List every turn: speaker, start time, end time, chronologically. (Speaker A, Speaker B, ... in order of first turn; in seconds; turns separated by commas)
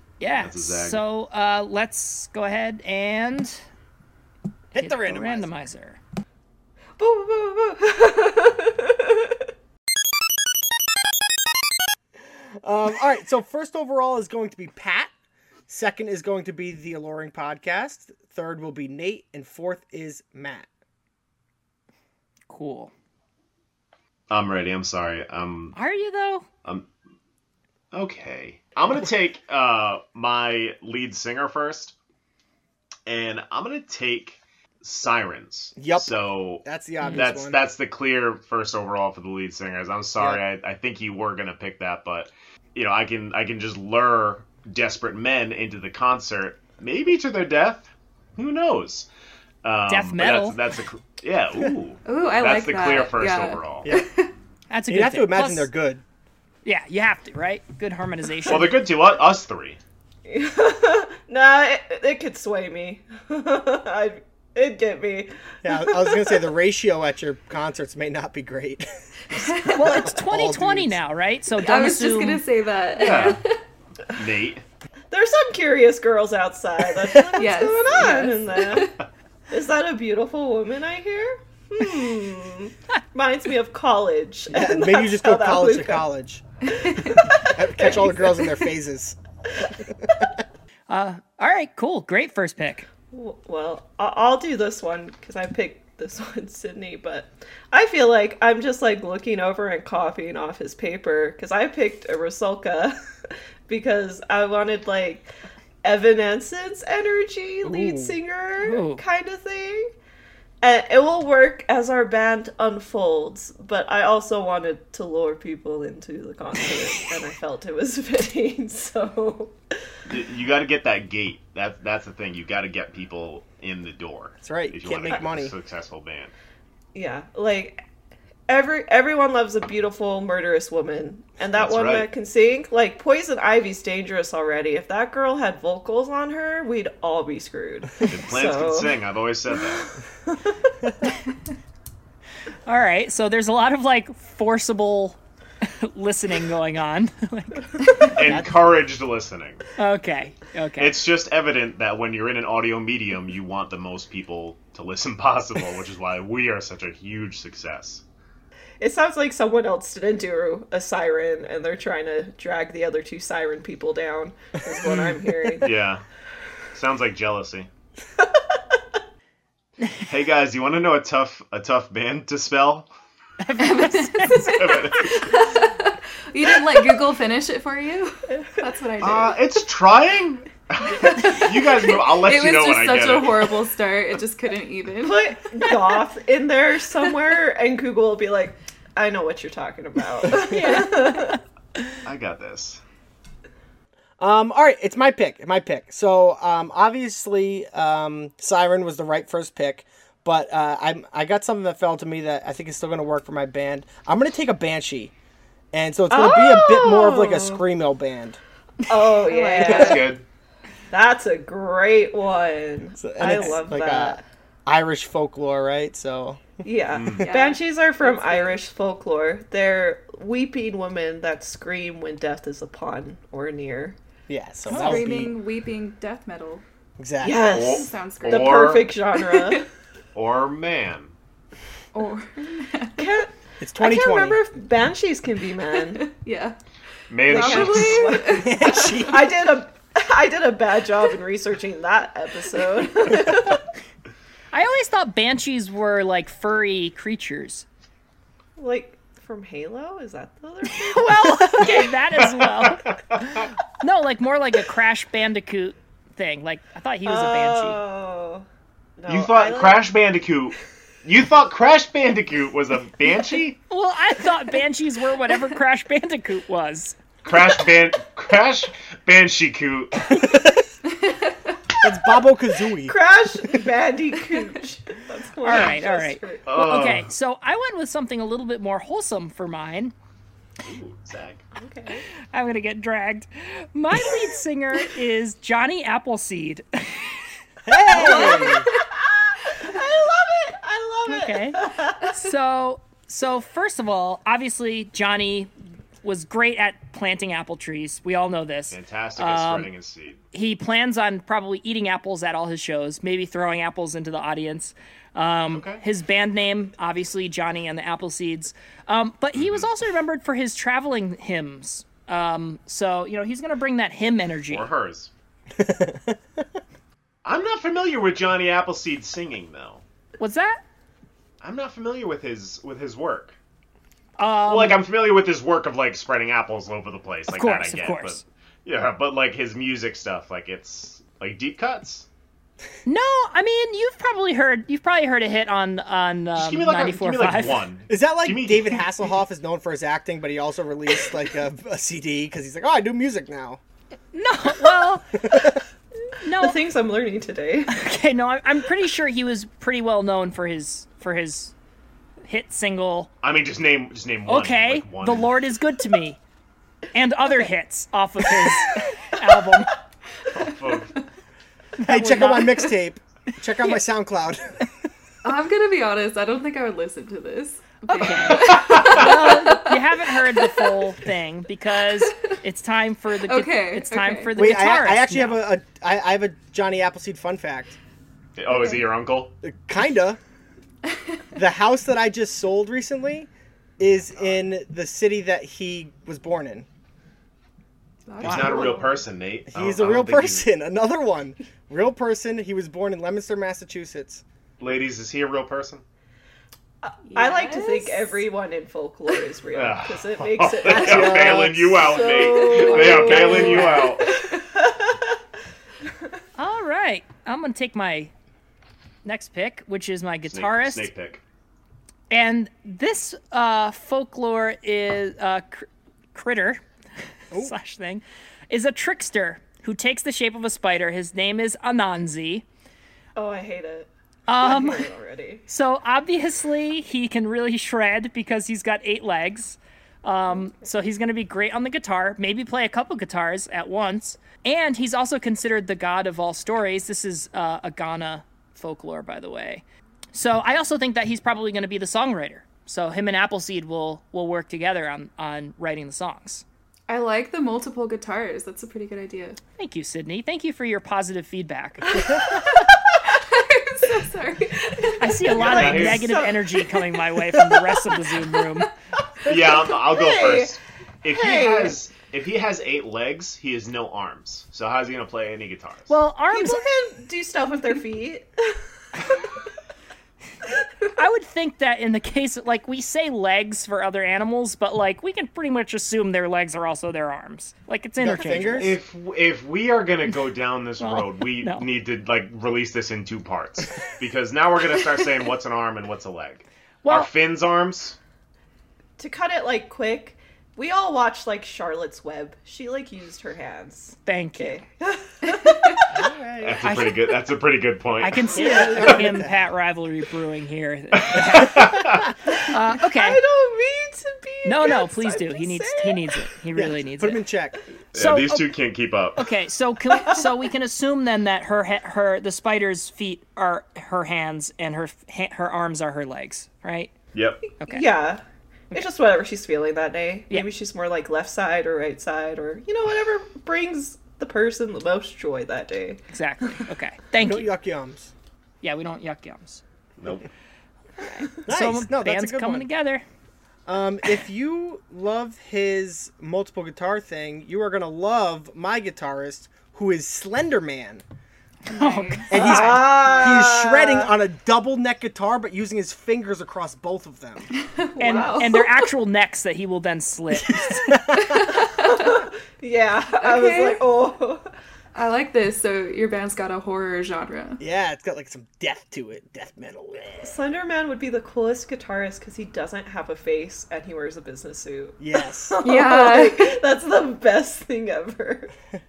Speaker A: 0.2-3.6, Speaker B: 0.4-1.0, Speaker C: 4.7-5.5, Speaker A: 4.8-6.0, Speaker D: 7.0-9.4, Speaker C: 12.6-15.1, Speaker C: 15.7-20.7, Speaker A: 22.5-22.9, Speaker B: 24.3-25.8, Speaker A: 25.7-26.4, Speaker B: 27.9-31.9, Speaker B: 33.0-49.1, Speaker C: 35.8-37.6, Speaker A: 37.0-37.2, Speaker B: 49.6-53.9, Speaker A: 49.9-50.6, Speaker E: 52.0-54.3, Speaker A: 54.7-55.7, Speaker C: 54.9-56.0, Speaker A: 56.6-58.7, Speaker B: 58.5-59.8, Speaker D: 60.2-66.4, Speaker C: 65.6-71.0, Speaker E: 69.3-70.0, Speaker A: 69.7-72.4, Speaker E: 71.5-73.6, Speaker B: 73.0-73.4, Speaker A: 73.0-73.3, Speaker B: 74.1-74.6, Speaker D: 75.1-78.9, Speaker E: 77.3-78.9, Speaker D: 79.5-86.0, Speaker C: 84.5-86.4, Speaker D: 86.8-88.6, Speaker C: 87.4-89.2, Speaker A: 90.9-92.9, Speaker D: 93.1-103.0, Speaker D: 103.7-105.3, Speaker D: 105.8-109.9, Speaker C: 107.6-108.2, Speaker A: 108.6-109.0, Speaker D: 110.6-119.6, Speaker B: 120.1-126.3, Speaker C: 124.4-125.5, Speaker D: 126.9-127.8, Speaker D: 128.5-138.9, Speaker B: 131.5-132.1, Speaker B: 138.1-139.9, Speaker D: 140.3-140.6, Speaker A: 142.7-147.7, Speaker B: 148.1-149.6, Speaker C: 148.2-148.5, Speaker A: 149.8-151.0, Speaker B: 150.8-158.0, Speaker D: 158.8-165.7, Speaker B: 165.6-166.0, Speaker B: 166.7-167.7, Speaker B: 170.1-172.9, Speaker A: 173.4-174.8, Speaker E: 173.6-179.4, Speaker B: 174.6-175.4, Speaker D: 178.3-178.7, Speaker B: 179.0-183.6, Speaker E: 181.0-185.3, Speaker D: 185.0-191.4, Speaker E: 190.3-191.3, Speaker B: 192.0-192.8, Speaker C: 194.2-205.1, Speaker C: 205.7-208.4, Speaker D: 206.1-207.6, Speaker D: 208.8-210.1, Speaker E: 209.2-210.0, Speaker B: 209.6-210.2, Speaker D: 210.9-214.2, Speaker C: 213.0-216.6, Speaker D: 216.6-224.0, Speaker B: 216.9-217.3, Speaker E: 217.2-218.6, Speaker C: 224.3-225.3, Speaker E: 224.7-226.6, Speaker A: 224.7-225.0, Speaker C: 227.0-227.5, Speaker D: 227.2-229.7, Speaker B: 227.5-228.9, Speaker E: 227.7-229.6, Speaker B: 230.1-231.1, Speaker E: 231.9-233.1, Speaker D: 233.0-236.0, Speaker C: 233.6-234.4, Speaker E: 235.8-236.6, Speaker B: 237.1-238.2, Speaker E: 237.3-239.1, Speaker D: 237.3-243.6, Speaker C: 238.3-239.3, Speaker A: 244.5-247.7, Speaker D: 248.6-251.9, Speaker A: 250.8-252.9, Speaker B: 252.2-253.4, Speaker A: 253.8-257.8, Speaker D: 257.0-258.4, Speaker D: 259.0-259.9, Speaker B: 259.1-263.6, Speaker A: 263.7-267.0, Speaker B: 267.2-270.2, Speaker C: 270.2-270.6, Speaker E: 270.9-271.6, Speaker C: 271.8-273.0, Speaker D: 272.8-276.5, Speaker A: 275.4-279.9, Speaker B: 276.4-277.1, Speaker B: 280.6-281.4, Speaker D: 281.5-282.0, Speaker A: 282.3-287.1, Speaker C: 287.6-288.6, Speaker D: 287.9-292.0, Speaker E: 287.9-288.7, Speaker A: 291.1-295.5, Speaker A: 296.0-299.7, Speaker B: 298.7-300.2, Speaker A: 300.3-314.7, Speaker B: 305.5-305.8, Speaker B: 309.3-309.7, Speaker B: 314.5-315.1, Speaker C: 315.5-316.4, Speaker B: 317.2-319.8, Speaker A: 320.2-320.6, Speaker B: 321.4-323.4, Speaker A: 324.2-324.8, Speaker B: 324.5-332.1, Speaker A: 327.3-328.2, Speaker A: 332.9-337.6, Speaker B: 336.4-338.9, Speaker C: 337.9-343.6, Speaker A: 344.1-345.2, Speaker C: 345.2-345.5, Speaker A: 346.2-346.6, Speaker D: 346.3-347.7, Speaker A: 347.7-351.5, Speaker A: 352.2-353.1, Speaker B: 353.2-355.3, Speaker A: 354.2-356.2, Speaker A: 356.9-359.7, Speaker B: 360.3-360.9, Speaker A: 361.8-362.7, Speaker C: 361.8-364.7, Speaker E: 365.2-370.7, Speaker A: 367.9-375.4, Speaker B: 368.3-369.0, Speaker E: 373.2-374.4, Speaker C: 374.3-377.8, Speaker B: 378.4-379.3, Speaker E: 378.5-378.8, Speaker C: 379.4-380.2, Speaker C: 381.3-386.6, Speaker B: 383.8-384.3, Speaker E: 388.1-388.9, Speaker B: 388.2-390.5, Speaker A: 388.2-388.6, Speaker D: 388.3-388.8, Speaker C: 389.5-394.2, Speaker B: 394.6-395.8, Speaker D: 396.8-405.1, Speaker E: 397.1-398.2, Speaker B: 399.5-404.1, Speaker C: 400.6-401.9, Speaker E: 402.0-404.4, Speaker A: 402.7-403.9, Speaker A: 406.4-408.1, Speaker A: 409.0-410.9, Speaker B: 410.3-411.2, Speaker A: 412.1-416.6, Speaker A: 417.3-422.4, Speaker D: 423.1-425.4, Speaker A: 424.3-424.9, Speaker A: 425.5-446.4, Speaker E: 446.9-449.4, Speaker A: 449.6-452.0, Speaker E: 451.9-455.4, Speaker A: 455.0-458.7, Speaker B: 455.3-456.2, Speaker D: 455.4-456.8, Speaker D: 459.2-460.5, Speaker B: 459.2-465.9, Speaker D: 461.1-461.8, Speaker A: 465.9-466.7, Speaker D: 466.3-469.2, Speaker A: 470.9-478.7, Speaker C: 478.0-478.8, Speaker B: 478.5-488.0, Speaker A: 480.8-481.6, Speaker A: 486.8-487.1, Speaker D: 489.0-495.9, Speaker A: 494.0-494.6, Speaker E: 495.3-495.7, Speaker C: 495.9-496.7, Speaker B: 496.4-498.9, Speaker A: 496.6-497.0, Speaker A: 498.0-503.2, Speaker C: 498.3-499.4, Speaker D: 498.4-498.8, Speaker B: 501.0-502.1, Speaker D: 502.8-506.0, Speaker A: 504.4-507.2, Speaker C: 506.5-507.6, Speaker A: 507.9-508.5, Speaker B: 507.9-509.3, Speaker A: 509.1-516.9, Speaker B: 517.1-517.4, Speaker A: 517.6-517.9, Speaker D: 517.7-526.0, Speaker A: 526.1-527.5, Speaker C: 527.2-528.1, Speaker A: 528.6-529.6, Speaker B: 530.0-530.2, Speaker A: 531.0-533.0, Speaker C: 531.5-532.7, Speaker C: 533.6-541.0, Speaker A: 541.7-543.0, Speaker E: 541.7-542.5, Speaker C: 542.3-547.5, Speaker D: 542.3-544.1, Speaker E: 547.5-548.7, Speaker A: 548.0-550.8, Speaker D: 548.0-548.5, Speaker C: 550.4-551.5, Speaker E: 551.1-552.1, Speaker D: 551.6-554.4, Speaker E: 553.1-553.8, Speaker E: 554.9-557.6, Speaker C: 557.6-560.3, Speaker D: 560.2-568.5, Speaker C: 565.0-565.6, Speaker E: 565.6-566.6